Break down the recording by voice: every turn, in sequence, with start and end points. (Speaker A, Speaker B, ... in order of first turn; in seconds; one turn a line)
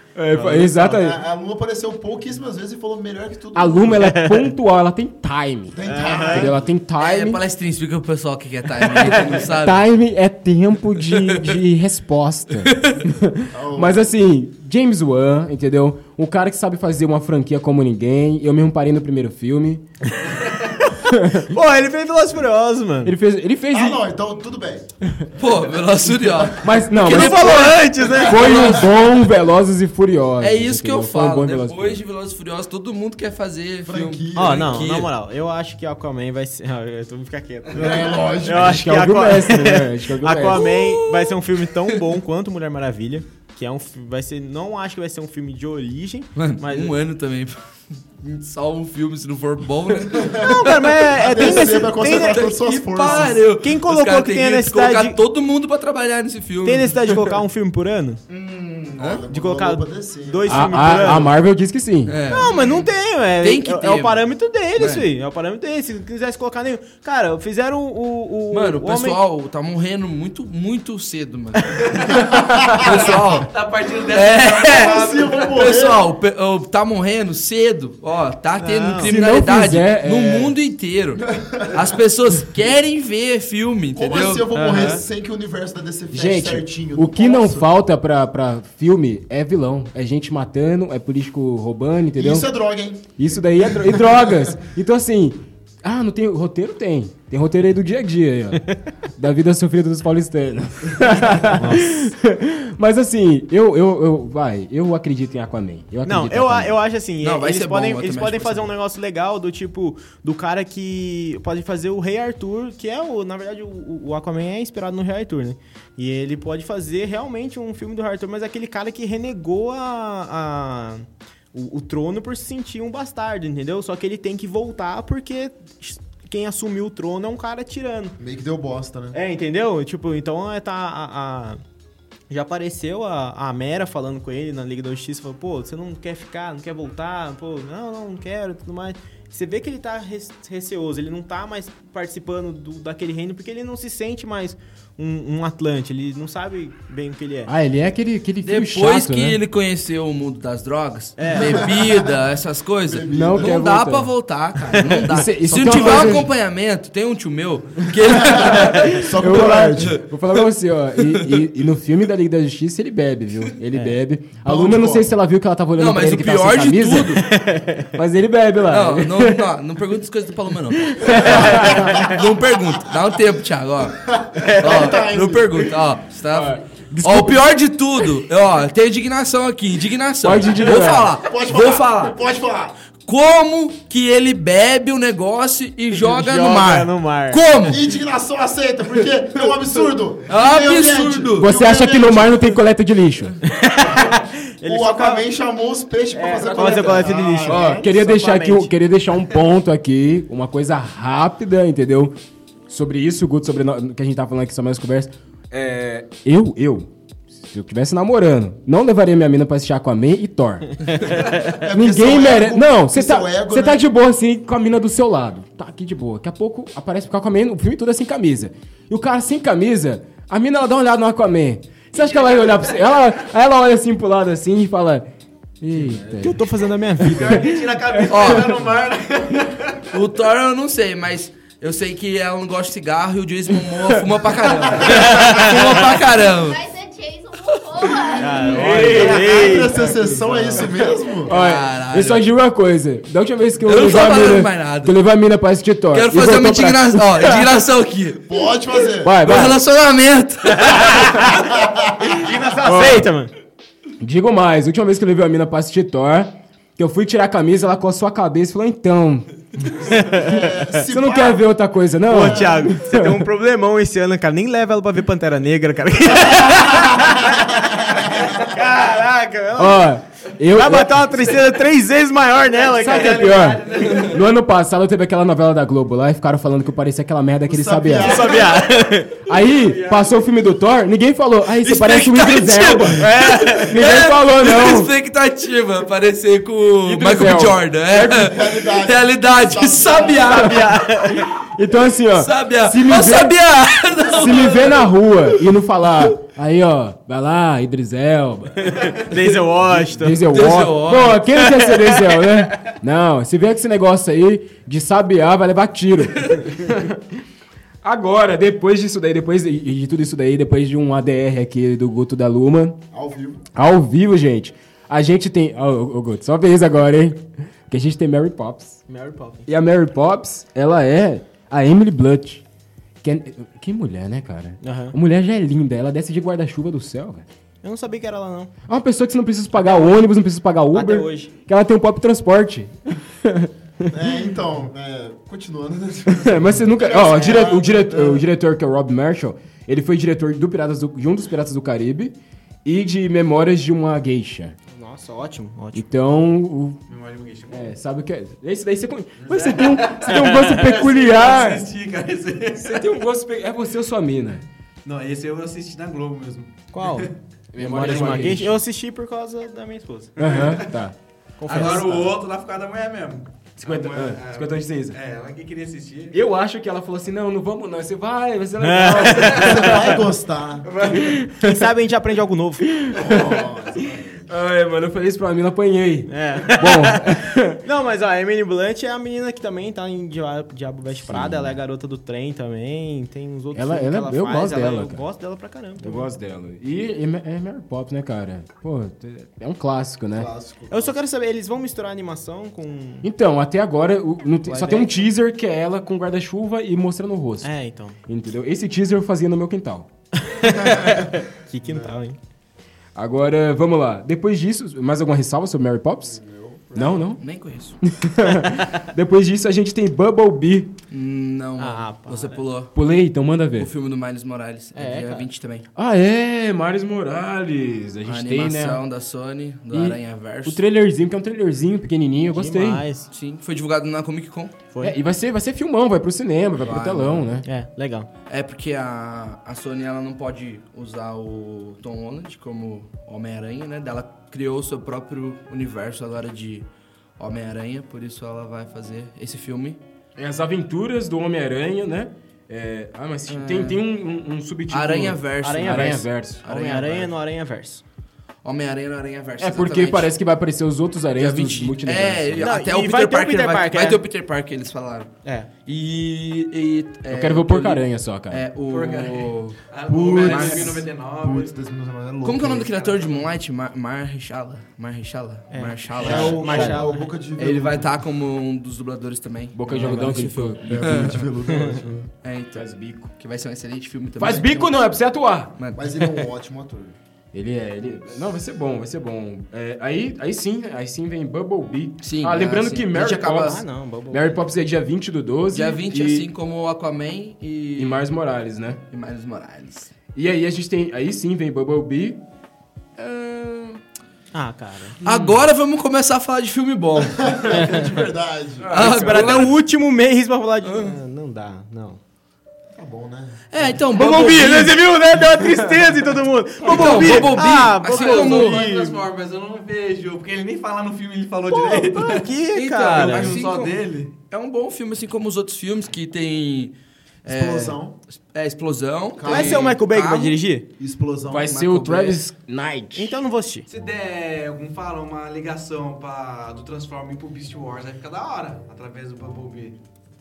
Speaker A: 0.1-1.2
Speaker B: 0.3-0.9
Speaker C: 0.8-4.2
Speaker A: 3.5-7.4
Speaker B: 4.0-4.5
Speaker C: 5.7-6.7
Speaker B: 5.9-6.5
Speaker D: 7.0-9.9
Speaker A: 8.9-19.8
Speaker D: 11.1-11.5
Speaker D: 12.7-13.0
Speaker C: 13.5-14.1
Speaker B: 20.3-23.1
Speaker A: 21.0-21.5
Speaker A: 23.1-24.0
Speaker C: 23.7-24.9
Speaker D: 25.4-28.9
Speaker A: 26.6-32.0
Speaker B: 27.1-28.8
Speaker D: 30.4-35.1
Speaker C: 33.8-34.9
Speaker B: 34.4-46.9
Speaker C: 37.7-38.9
Speaker A: 38.5-40.7
Speaker D: 40.6-42.0
Speaker D: 46.4-47.6
Speaker D: 48.2-57.0
Speaker C: 50.1-53.4
Speaker B: 50.4-55.2
Speaker B: 56.6-58.2
Speaker C: 58.3-61.2
Speaker B: 59.3-61.3
Speaker A: 60.5-62.2
Speaker D: 62.1-64.2
Speaker B: 62.3-69.2
Speaker D: 64.8-65.1
Speaker D: 68.5-73.5
Speaker E: 71.8-75.6
Speaker C: 72.3-73.2
Speaker D: 74.1-84.5
Speaker C: 74.4-76.0
Speaker B: 78.6-79.2
Speaker A: 79.0-80.5
Speaker C: 81.4-81.7
Speaker C: 83.9-87.7
Speaker B: 84.5-85.0
Speaker A: 86.1-92.5
Speaker C: 92.2-94.6
Speaker A: 93.2-106.8
Speaker C: 101.1-101.5
Speaker B: 101.4-102.1
Speaker B: 106.0-128.2
Speaker D: 107.2-108.7
Speaker C: 128.2-129.2
Speaker B: 129.1-131.6
Speaker B: 132.3-147.5
Speaker A: 147.5-149.4
Speaker D: 148.4-160.5
Speaker B: 151.2-151.7
Speaker C: 151.4-152.2
Speaker C: 152.9-153.6
Speaker A: 153.1-154.1
Speaker A: 154.7-156.3
Speaker C: 155.5-156.3
Speaker C: 158.0-160.0
Speaker A: 158.6-169.4
Speaker D: 161.0-161.4
Speaker C: 164.4-165.2
Speaker D: 165.8-167.2
Speaker B: 167.2-167.9
Speaker D: 168.7-174.1
Speaker A: 171.0-172.0
Speaker C: 171.2-172.4
Speaker C: 174.1-175.7
Speaker B: 174.4-174.9
Speaker D: 174.6-182.2
Speaker A: 176.3-177.5
Speaker A: 180.2-181.2
Speaker C: 181.1-182.8
Speaker D: 183.1-187.8
Speaker B: 185.9-187.4
Speaker C: 187.7-192.6
Speaker D: 190.3-191.5
Speaker A: 191.4-193.4
Speaker B: 193.5-195.3
Speaker C: 194.6-197.8
Speaker B: 196.1-198.7
Speaker A: 196.4-196.8
Speaker A: 197.4-202.2
Speaker A: 202.7-225.1
Speaker C: 211.6-213.8
Speaker E: 221.9-223.1
Speaker A: 225.6-226.5
Speaker C: 225.7-226.3
Speaker B: 226.2-227.3
Speaker A: 227.0-228.6
Speaker E: 227.0-229.8
Speaker D: 228.1-228.5
Speaker D: 229.9-236.6
Speaker A: 233.7-234.1
Speaker B: 234.8-235.7
Speaker F: 236.2-238.7
Speaker D: 237.5-238.0
Speaker B: 238.2-240.8
Speaker E: 238.4-240.1
Speaker A: 238.5-239.4
Speaker C: 238.8-241.3
Speaker A: 241.2-247.5
Speaker D: 241.3-242.3
Speaker D: 243.7-244.9
Speaker D: 245.9-248.2
Speaker C: 248.3-249.2
Speaker A: 249.0-249.6
Speaker D: 249.2-251.3
Speaker B: 250.6-251.3
Speaker C: 251.2-252.2
Speaker E: 252.2-253.0
Speaker B: 252.2-253.3
Speaker A: 252.6-253.1
Speaker A: 254.0-263.3
Speaker B: 259.9-260.3
Speaker C: 259.9-261.4
Speaker B: 262.1-269.9
Speaker C: 267.3-268.4
Speaker A: 269.6-271.4
Speaker B: 270.5-273.6
Speaker E: 272.6-274.3
Speaker A: 272.8-278.4
Speaker C: 277.5-278.5
Speaker B: 278.0-279.2
Speaker A: 279.1-284.9
Speaker E: 279.3-280.2
Speaker D: 281.6-291.2
Speaker B: 283.0-283.8
Speaker A: 286.8-288.2
Speaker C: 288.0-290.5
Speaker B: 290.3-291.3
Speaker A: 291.2-299.0
Speaker D: 292.1-294.9
Speaker B: 298.6-300.3
Speaker A: 299.6-307.0
Speaker D: 300.3-301.2
Speaker B: 301.4-302.3
Speaker A: 307.8-312.8
Speaker C: 312.9-313.5
Speaker A: 313.6-318.8
Speaker B: 318.9-319.5
Speaker A: 319.5-322.4
Speaker A: 323.0-327.3
Speaker B: 324.6-325.0
Speaker B: 327.6-328.5
Speaker A: 328.7-334.1
Speaker B: 329.6-330.1
Speaker B: 330.7-331.3
Speaker C: 333.9-338.3
Speaker A: 336.1-344.6
Speaker B: 344.7-345.9
Speaker A: 345.8-346.8
Speaker E: 346.9-347.7
Speaker A: 347.5-351.6
Speaker E: 349.2-353.1
Speaker A: 352.6-354.4
Speaker E: 354.9-357.1
Speaker B: 356.7-360.4
Speaker A: 357.5-358.6
Speaker A: 360.2-360.9
Speaker E: 360.2-360.7
Speaker B: 361.4-362.2
Speaker E: 361.5-366.2
Speaker A: 361.5-361.9
Speaker A: 363.6-365.0
Speaker A: 366.1-370.0
Speaker B: 368.6-369.9
Speaker C: 369.2-370.7
Speaker E: 369.3-369.6
Speaker B: 370.7-372.8
Speaker A: 370.8-371.7
Speaker A: 372.6-377.6
Speaker C: 372.9-374.3
Speaker B: 376.1-386.1
Speaker A: 381.1-381.6
Speaker A: 383.5-385.0
Speaker A: 385.8-390.3
Speaker C: 390.1-391.0
Speaker B: 390.7-393.1
Speaker A: 393.0-397.5
Speaker B: 394.5-395.1
Speaker B: 397.4-398.0
Speaker A: 398.1-399.9
Speaker B: 400.2-402.2
Speaker C: 400.7-401.1
Speaker C: 401.6-402.0
Speaker A: 402.9-406.2
Speaker C: 406.1-407.1
Speaker A: 406.8-407.2
Speaker D: 407.2-407.8
Speaker A: 407.8-410.7
Speaker D: 410.9-412.7
Speaker B: 411.6-412.4
Speaker A: 412.8-413.7
Speaker D: 413.6-415.7
Speaker B: 414.8-415.3
Speaker A: 415.8-418.8
Speaker D: 418.1-420.6
Speaker A: 419.7-422.9
Speaker B: 422.3-423.1
Speaker D: 423.1-424.6
Speaker A: 424.8-427.5
Speaker D: 426.6-427.4
Speaker B: 427.4-428.1
Speaker D: 428.3-436.7
Speaker D: 437.2-439.8
Speaker A: 440.2-446.4
Speaker D: 443.3-443.8
Speaker D: 444.7-447.1
Speaker B: 445.4-447.8
Speaker D: 448.4-450.1
Speaker A: 449.4-452.6
Speaker D: 451.2-455.1
Speaker B: 452.4-454.0
Speaker B: 455.2-455.5
Speaker D: 455.7-460.8
Speaker A: 457.1-458.5
Speaker E: 458.7-461.5
Speaker C: 459.9-462.7
Speaker D: 462.2-466.8
Speaker E: 462.5-463.3
Speaker B: 465.5-467.1
Speaker C: 466.0-467.9
Speaker A: 466.0-466.7
Speaker D: 467.4-471.2
Speaker A: 469.5-471.1
Speaker C: 470.6-472.0
Speaker B: 471.5-472.0
Speaker D: 472.2-474.8
Speaker A: 472.6-473.1
Speaker A: 474.2-475.5
Speaker D: 475.6-476.3
Speaker C: 475.8-477.0
Speaker A: 477.3-486.3
Speaker D: 482.0-483.6
Speaker B: 483.4-484.4
Speaker D: 485.5-488.1
Speaker A: 487.8-488.8
Speaker D: 488.9-489.9
Speaker A: 490.1-492.2
Speaker A: 493.0-493.7
Speaker B: 494.3-495.0
Speaker D: 495.0-497.8
Speaker A: 495.1-495.4
Speaker C: 497.2-498.9
Speaker B: 497.5-497.9
Speaker D: 498.7-499.6
Speaker B: 498.7-502.0
Speaker A: 498.7-499.4
Speaker D: 500.6-501.0
Speaker C: 502.7-503.5
Speaker D: 503.5-504.8
Speaker B: 503.6-509.0
Speaker C: 506.6-507.5
Speaker D: 506.6-508.6
Speaker E: 507.8-512.3
Speaker B: 511.5-513.4
Speaker D: 512.5-516.7
Speaker E: 512.9-514.1
Speaker D: 517.2-520.4
Speaker C: 517.3-518.0
Speaker C: 519.2-519.7
Speaker B: 519.2-520.6
Speaker C: 520.8-521.6
Speaker A: 521.3-523.2
Speaker D: 521.5-522.2
Speaker B: 522.9-523.7
Speaker E: 523.7-529.8